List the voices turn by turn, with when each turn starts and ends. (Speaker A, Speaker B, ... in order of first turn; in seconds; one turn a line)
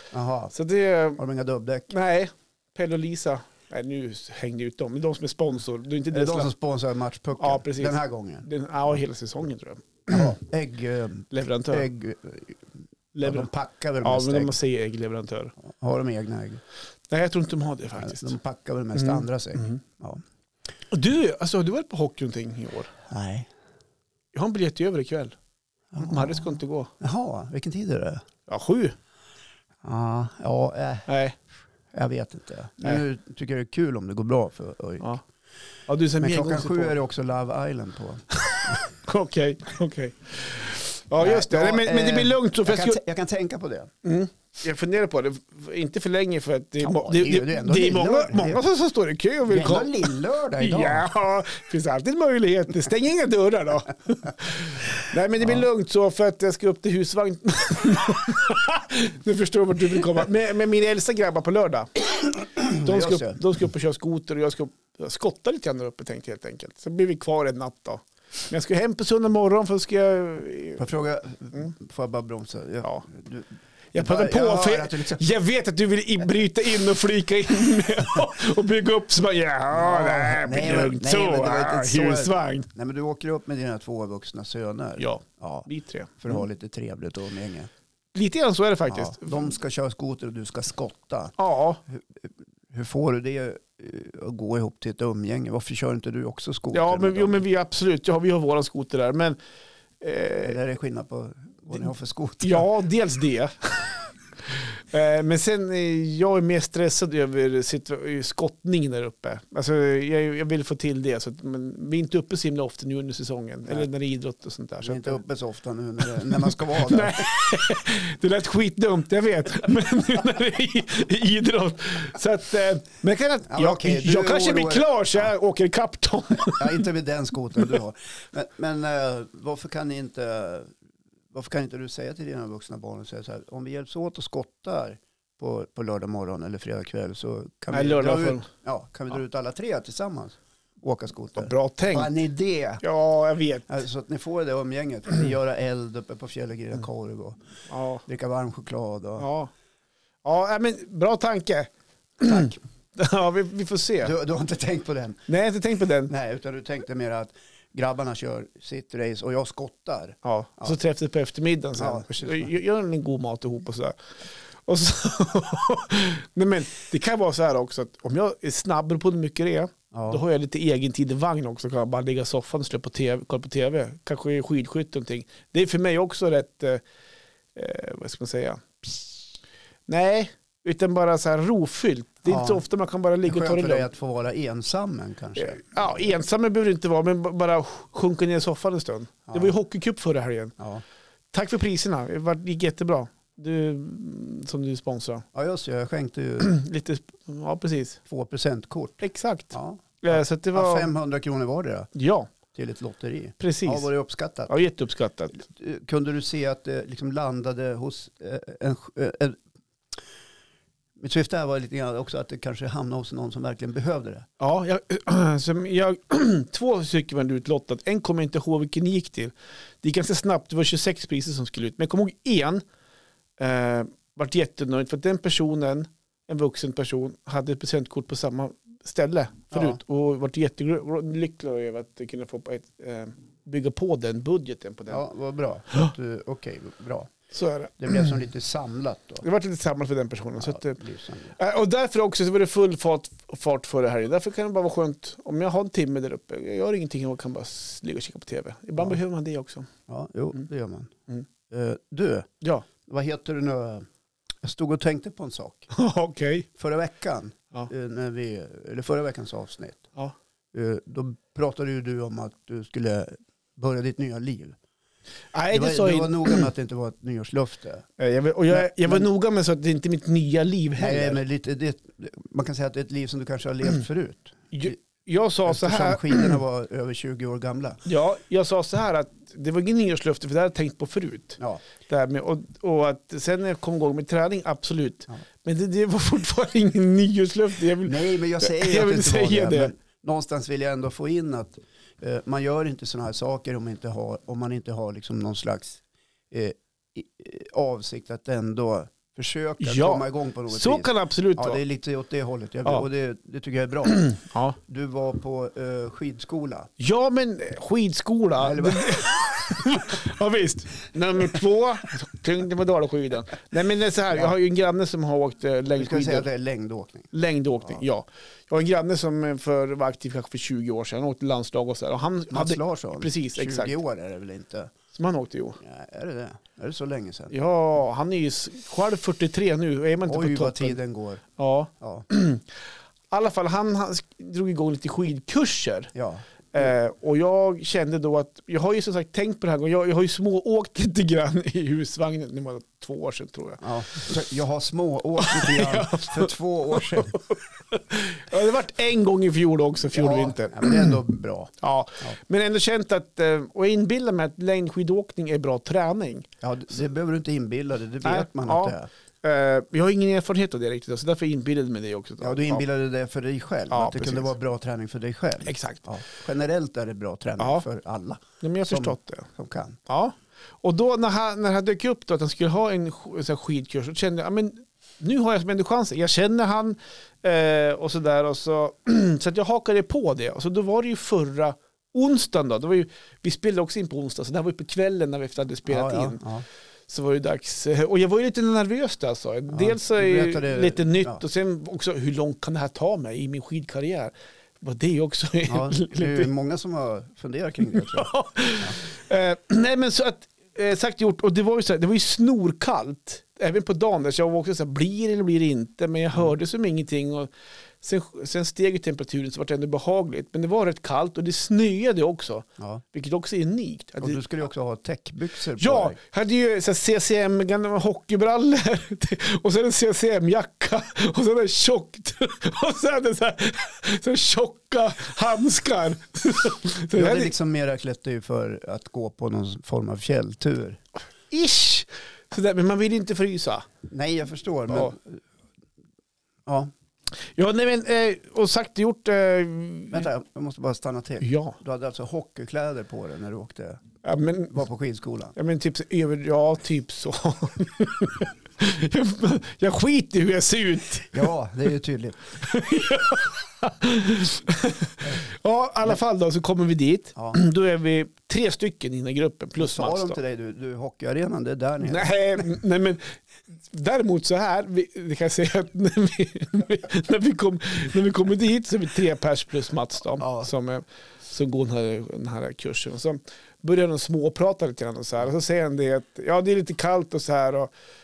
Speaker A: 0.1-0.6
Speaker B: 0.5-1.2
Speaker A: 1.2-1.9
Speaker B: 1.9-6.5
Speaker A: 6.1-8.5
Speaker B: 7.4-10.4
Speaker A: 10.1-12.6
Speaker B: 11.3-11.9
Speaker B: 13.1-13.5
Speaker A: 13.2-14.6
Speaker B: 14.0-15.5
Speaker A: 15.6-16.6
Speaker B: 17.1-18.3
Speaker A: 17.9-20.2
Speaker B: 19.0-19.8
Speaker B: 20.9-22.9
Speaker A: 23.1-23.5
Speaker B: 24.3-25.4
Speaker A: 25.9-26.5
Speaker B: 26.0-26.9
Speaker A: 27.0-28.2
Speaker B: 28.5-28.9
Speaker A: 29.8-31.1
Speaker B: 31.1-31.4
Speaker A: 31.9-35.1
Speaker B: 35.9-37.0
Speaker A: 36.2-38.8
Speaker B: 38.5-43.0
Speaker A: 41.2-43.9
Speaker B: 44.0-61.9
Speaker A: 46.8-48.6
Speaker A: 49.5-51.1
Speaker A: 55.4-55.6
Speaker A: 62.4-63.4
Speaker B: 62.7-70.8
Speaker A: 70.8-75.2
Speaker B: 73.9-82.7
Speaker A: 79.7-85.7
Speaker B: 85.0-86.4
Speaker A: 86.2-87.7
Speaker B: 88.1-89.4
Speaker A: 88.9-91.4
Speaker B: 91.4-91.8
Speaker A: 91.9-97.4
Speaker B: 96.7-99.4
Speaker B: 100.0-100.6
Speaker A: 100.4-102.7
Speaker B: 102.4-115.2
Speaker A: 114.8-117.3
Speaker B: 116.2-126.8
Speaker A: 123.5-125.3
Speaker A: 126.4-130.7
Speaker A: 131.3-142.8
Speaker B: 137.7-138.5
Speaker B: 141.4-142.1
Speaker B: 142.8-143.7
Speaker A: 143.7-147.4
Speaker B: 147.7-148.0
Speaker A: 148.1-149.3
Speaker B: 149.2-149.5
Speaker B: 150.2-154.1
Speaker A: 152.3-152.6
Speaker A: 154.0-155.3
Speaker B: 155.3-156.1
Speaker A: 156.1-160.8
Speaker B: 160.2-164.0
Speaker A: 161.8-162.5
Speaker B: 164.6-176.8
Speaker A: 169.9-170.2
Speaker B: 177.6-179.2
Speaker B: 179.9-183.9
Speaker A: 182.3-182.6
Speaker A: 183.3-186.2
Speaker B: 185.4-190.6
Speaker A: 189.3-189.6
Speaker A: 190.6-190.8
Speaker B: 191.3-195.2
Speaker A: 195.3-196.5
Speaker B: 196.4-198.0
Speaker A: 198.1-201.9
Speaker B: 199.0-200.9
Speaker B: 201.9-202.3
Speaker A: 202.5-204.5
Speaker B: 203.4-203.9
Speaker B: 204.5-205.4
Speaker A: 205.3-209.4
Speaker A: 211.0-214.3
Speaker B: 214.4-222.6
Speaker B: 223.4-235.0
Speaker A: 229.5-229.8
Speaker A: 234.9-237.1
Speaker B: 237.3-238.1
Speaker A: 237.8-239.3
Speaker B: 239.2-240.8
Speaker A: 240.4-241.4
Speaker B: 241.4-249.7
Speaker A: 249.9-250.9
Speaker A: 251.5-252.3
Speaker A: 252.8-253.9
Speaker A: 254.4-255.7
Speaker B: 255.7-256.5
Speaker A: 256.6-259.9
Speaker A: 260.5-264.6
Speaker B: 265.3-266.5
Speaker A: 265.5-267.9
Speaker B: 268.0-271.2
Speaker A: 268.5-269.1
Speaker A: 270.8-274.8
Speaker B: 274.5-276.4
Speaker A: 275.5-277.8
Speaker B: 277.9-289.7
Speaker A: 287.8-304.1
Speaker B: 299.6-301.6
Speaker B: 303.9-304.6
Speaker A: 304.7-306.7
Speaker B: 306.8-316.3
Speaker A: 308.4-309.6
Speaker A: 315.7-317.1
Speaker B: 317.1-323.8
Speaker A: 322.3-324.7
Speaker B: 324.9-325.6
Speaker A: 325.6-327.4
Speaker B: 327.3-330.8
Speaker A: 330.1-331.2
Speaker B: 331.4-332.6
Speaker A: 331.8-332.1
Speaker B: 333.1-335.9
Speaker A: 335.9-336.7
Speaker B: 336.5-343.6
Speaker A: 343.6-347.2
Speaker B: 345.2-351.0
Speaker A: 349.9-352.2
Speaker B: 351.6-356.3
Speaker A: 356.4-358.9
Speaker B: 358.0-362.6
Speaker A: 362.2-369.8
Speaker B: 363.7-364.3
Speaker B: 365.5-365.8
Speaker B: 367.4-367.6
Speaker B: 368.4-369.3
Speaker B: 369.9-386.2
Speaker A: 385.7-386.5
Speaker B: 386.9-396.3
Speaker A: 389.5-391.2
Speaker A: 395.5-398.8
Speaker B: 397.7-407.3
Speaker B: 407.8-414.2
Speaker A: 412.6-412.8
Speaker A: 414.0-416.0
Speaker B: 415.6-427.3
Speaker A: 426.9-430.8
Speaker B: 431.3-433.7
Speaker A: 433.9-435.2
Speaker A: 436.5-436.7
Speaker B: 437.2-440.1
Speaker A: 439.9-443.8
Speaker B: 441.2-441.6
Speaker B: 444.0-444.6
Speaker A: 444.5-445.4
Speaker B: 445.4-451.3
Speaker A: 451.1-452.3
Speaker B: 452.4-460.2
Speaker A: 459.6-462.5
Speaker B: 461.8-477.7
Speaker A: 470.2-470.5